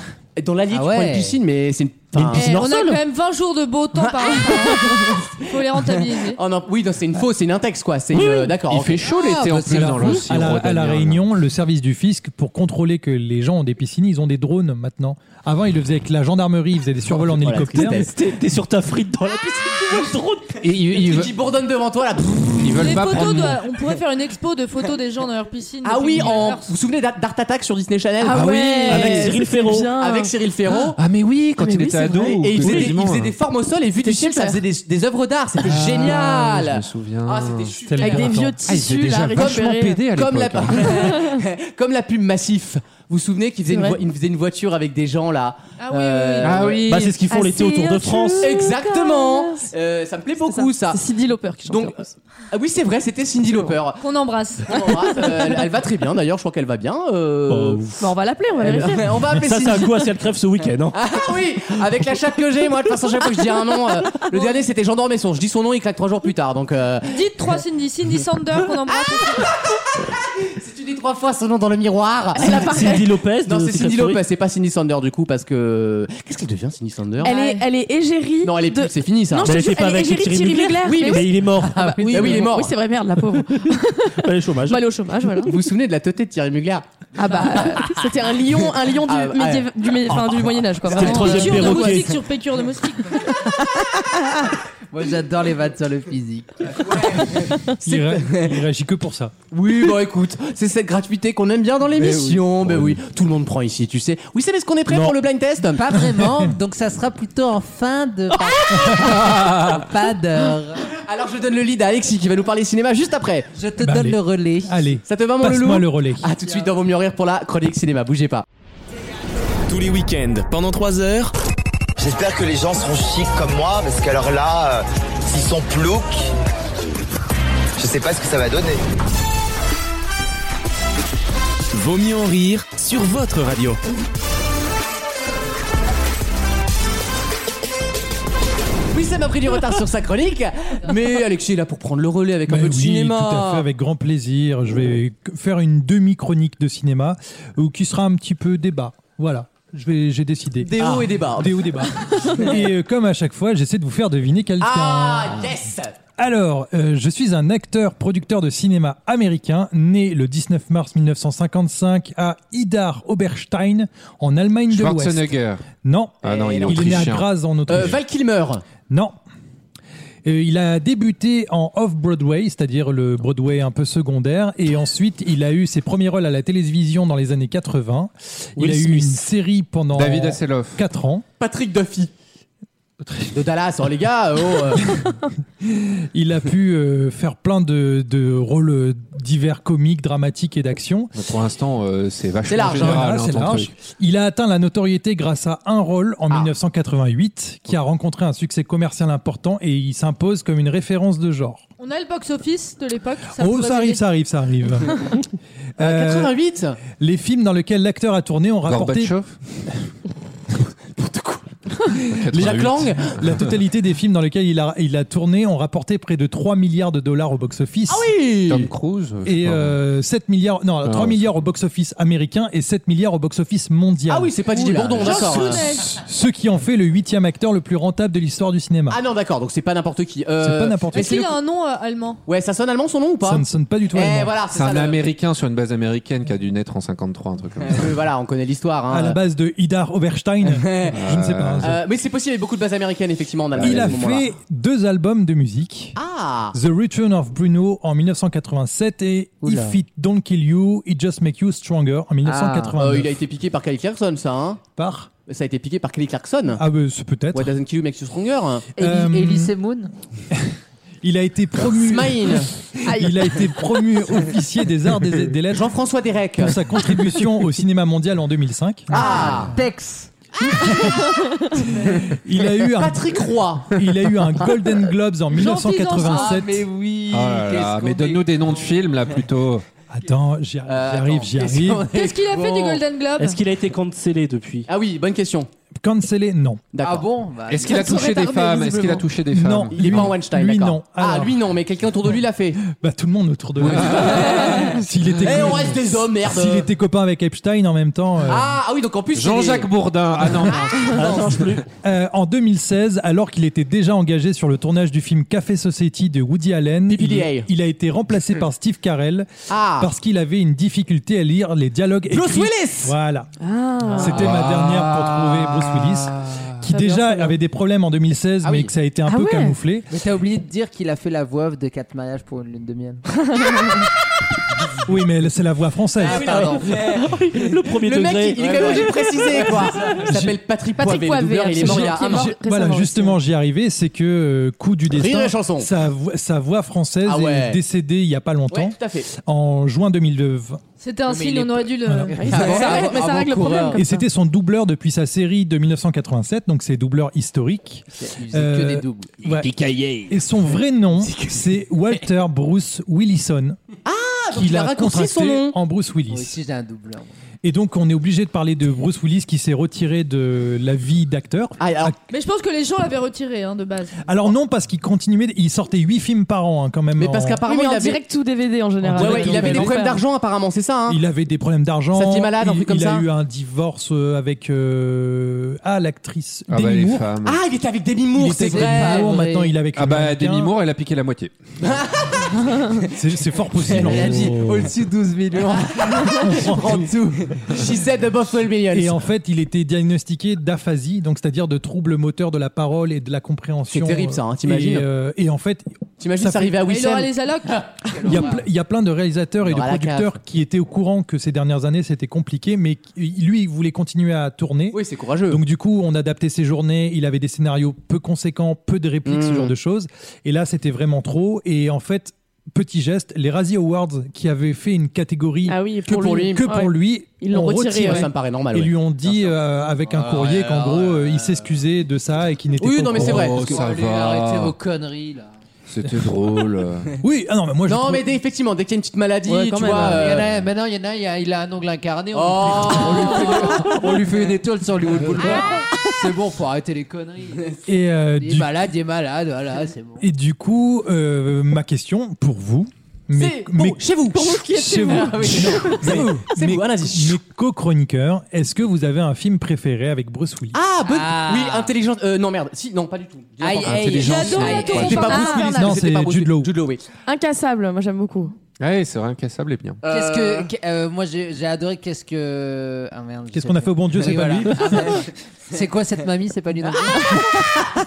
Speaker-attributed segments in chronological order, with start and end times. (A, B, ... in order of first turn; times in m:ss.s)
0:00.4-0:02.5 A
0:00.7-0:01.4 B
0:02.1-0:03.0 C
0:02.4-0:06.4 D
0:04.0-0:09.0 A
0:08.1-0:08.5 C
0:08.7-0:11.2 E
0:09.1-0:10.2 B
0:09.6-0:18.1 F
0:17.1-0:18.2 A
0:17.9-0:20.6 C
0:20.6-0:21.3 E
0:20.9-0:23.3 A
0:22.5-0:23.7 E
0:22.8-0:26.7 D
0:25.8-0:28.5 A
0:28.2-0:30.3 G
0:28.2-0:29.3 E
0:28.8-0:29.9 C
0:30.0-0:31.0 A
0:31.0-0:33.3 E
0:31.6-0:32.8 G
0:32.4-0:38.5 A
0:34.0-0:34.6 G
0:35.6-0:37.7 E
0:37.9-0:38.6 F
0:38.0-0:40.0 G
0:38.6-0:41.1 E
0:39.4-0:46.9 A
0:40.7-0:41.4 G
0:43.7-0:44.0 G
0:45.8-0:46.8 D
0:46.4-0:47.2 E
0:46.8-0:48.5 C
0:47.3-0:49.6 G
0:48.4-0:51.0 A
0:50.4-0:52.1 G
0:51.7-0:54.0 A
0:54.0-0:55.2 D
0:54.6-0:57.8 A
0:57.5-0:58.0 C
0:58.0-0:59.2 G
0:58.6-1:00.0 A
0:58.6-1:01.0 C
1:00.9-1:07.6 A
1:07.1-1:09.4 D
1:09.3-1:17.3 A
1:12.4-1:14.2 C
1:12.4-1:13.0 G
1:17.2-1:25.5 G
1:17.2-1:17.6 D
1:18.4-1:19.6 A
1:19.4-1:22.5 C
1:20.8-1:21.2 A
1:22.1-1:22.7 A
1:23.5-1:25.2 C
1:25.4-1:26.8 A
1:27.2-1:32.0 G
1:28.9-1:29.8 A
1:30.8-1:32.2 C
1:30.9-1:33.2 D
1:31.0-1:31.6 A
1:33.3-1:34.5 G
1:34.9-1:36.9 B
1:36.8-1:38.6 A
1:37.8-1:39.3 F
1:39.5-1:45.8 A
1:42.1-1:42.7 F
1:44.9-1:45.2 F
1:45.8-1:50.8 B
1:46.1-1:46.5 F
1:49.0-1:49.8 E
1:51.0-1:53.5 A
1:53.6-1:54.8 B
1:53.8-1:56.3 F
1:55.1-1:58.4 A
1:59.7-2:01.3 H
2:02.0-2:06.3 I
2:07.8-2:08.8 I
2:11.7-2:13.8 H
2:18.9-2:23.6 A
2:22.5-2:35.5 F
2:30.7-2:32.5 A
2:34.6-2:36.0 A
2:36.2-2:48.0 F
2:44.7-2:45.6 E
2:46.2-2:47.1 A
2:46.2-2:47.2 E
2:47.7-2:48.6 A
2:48.9-2:49.2 F
2:50.2-3:01.2 F
2:58.6-2:59.2 C
2:59.9-3:00.8 E
3:01.4-3:02.1 A
3:03.2-3:05.0 A
3:05.6-3:11.1 F
3:11.1-3:13.7 E
3:12.5-3:13.1 A
3:12.7-3:21.6 F
3:21.8-3:24.0 D
3:23.4-3:25.0 F
3:25.8-3:26.3 F
3:25.8-3:26.8 A
3:26.9-3:29.1 F
3:28.7-3:29.8 E
3:31.0-3:33.2 A
3:32.1-3:33.5 E
3:33.2-3:38.1 F
3:37.9-3:38.7 A
3:38.5-3:39.8 E
3:39.2-3:49.0 F
3:40.8-3:41.4 E
3:44.1-3:45.8 A
3:45.0-3:46.0 D
3:48.9-3:51.4 A
3:50.4-3:51.1 F
3:50.9-3:52.2 D
3:52.3-3:55.0 A
3:53.2-3:54.3 F
3:54.5-3:58.0 E
3:57.6-3:59.2 A
3:58.9-4:01.8 F
4:00.4-4:01.0 A
4:00.9-4:01.8 E
4:01.6-4:04.2 A
4:03.5-4:04.0 E
4:03.6-4:06.0 F
4:06.0-4:06.5 A
4:06.5-4:13.2 F
4:09.4-4:09.8 B
4:12.2-4:12.8 B
4:12.8-4:14.6 A
4:14.8-4:15.1 F
4:15.3-4:16.6 A
4:16.5-4:17.5 F
4:17.3-4:18.7 A
4:18.8-4:19.5 F
4:18.8-4:19.9 B
4:20.3-4:25.7 F
4:21.6-4:22.5 A
4:22.8-4:23.4 G
4:25.5-4:26.6 A
4:26.4-4:29.0 F
4:28.9-4:29.6 A
4:29.0-4:30.1 B
4:30.4-4:31.0 A
4:30.5-4:31.0 F
4:31.8-4:32.1 A
4:31.9-4:36.6 F
4:32.7-4:33.8 A
4:35.3-4:36.4 D
4:36.0-4:38.5 B
4:37.1-4:39.6 E
4:39.9-4:41.9 F
4:40.7-4:42.2 A
4:41.8-4:43.4 D
4:42.2-4:42.8 B
4:43.2-4:44.7 C
4:44.7-4:45.5 A
4:45.8-4:46.6 F
4:46.7-4:47.1 A
4:46.8-4:49.0 B
4:47.5-4:50.1 E
4:49.3-4:51.4 F
4:49.7-4:52.6 A
4:52.6-4:58.6 F
4:53.6-4:54.6 E
4:53.6-4:56.7 A
4:58.2-5:01.4 A
4:59.1-5:01.2 E
5:00.9-5:01.6 C
5:01.8-5:13.3 F
5:06.9-5:07.5 A
5:09.5-5:09.9 A
5:12.1-5:12.9 A
5:13.4-5:14.3 G
5:13.9-5:19.9 F
5:14.0-5:16.5 E
5:16.7-5:17.3 G
5:18.4-5:18.7 A
5:19.1-5:19.5 G
5:19.9-5:23.0 B
5:23.3-5:23.8 G
5:24.8-5:26.6 F
5:26.0-5:26.9 B
5:26.0-5:27.1 A
5:26.8-5:29.2 C
5:27.7-5:32.3 A
5:28.4-5:29.8 B
5:30.0-5:30.4 F
5:30.8-5:33.2 G
5:31.6-5:40.6 F
5:34.9-5:35.7 A
5:37.0-5:37.6 A
5:38.5-5:39.1 A
5:40.8-5:43.0 D
5:41.0-5:43.8 B
5:41.8-5:42.1 F
5:42.2-5:44.0 G
5:42.3-5:43.1 A
5:43.7-5:49.5 F
5:47.9-5:49.2 B
5:49.3-5:50.1 E
5:50.1-5:53.6 F
5:53.8-5:55.6 A
5:54.3-5:56.4 F
5:56.1-5:57.1 B
5:57.4-6:02.0 F
6:01.6-6:02.0 A
6:02.1-6:04.1 D
6:04.0-6:07.4 F
6:07.0-6:08.0 A
6:07.4-6:10.0 G
6:08.8-6:09.8 F
6:09.0-6:11.0 A
6:10.9-6:17.1 F
6:11.9-6:13.0 A
6:16.5-6:17.4 E
6:17.2-6:19.1 A
6:18.1-6:20.5 F
6:18.4-6:19.5 B
6:19.8-6:21.3 E
6:21.6-6:22.9 A
6:22.9-6:24.6 F
6:23.6-6:24.4 A
6:23.8-6:26.0 B
6:25.4-6:29.0 A
6:26.0-6:26.9 F
6:28.7-6:36.6 F
6:33.7-6:34.8 A
6:36.0-6:37.1 A
6:36.6-6:37.9 D
6:37.9-6:38.3 A
6:38.0-7:03.4 F
6:39.4-6:40.1 A
6:44.7-6:45.4 A
6:49.0-6:49.5 A
6:55.5-6:58.1 G
6:55.9-6:56.4 A
6:57.8-6:58.7 A
6:59.8-7:01.4 B
7:02.6-7:03.6 A
7:02.9-7:04.5 E
7:03.3-7:05.3 B
7:05.7-7:06.9 E
7:07.0-7:08.1 F
7:07.7-7:10.3 A
7:09.3-7:10.0 G
7:09.7-7:17.5 B
7:12.1-7:13.8 A
7:17.6-7:18.6 F
7:18.2-7:20.0 B
7:20.0-7:30.6 F
7:23.1-7:27.2 A
7:24.2-7:25.7 G
7:30.5-7:36.8 A
7:30.9-7:31.7 B
7:33.4-7:35.2 B
7:33.6-7:35.2 E
7:34.0-7:35.7 D
7:35.1-7:35.5 G
7:35.2-7:36.5 F
7:37.0-7:38.3 G
7:38.6-7:39.8 E
7:39.8-7:40.5 A
7:39.8-7:47.3 B
7:43.3-7:45.0 F
7:47.0-7:47.6 G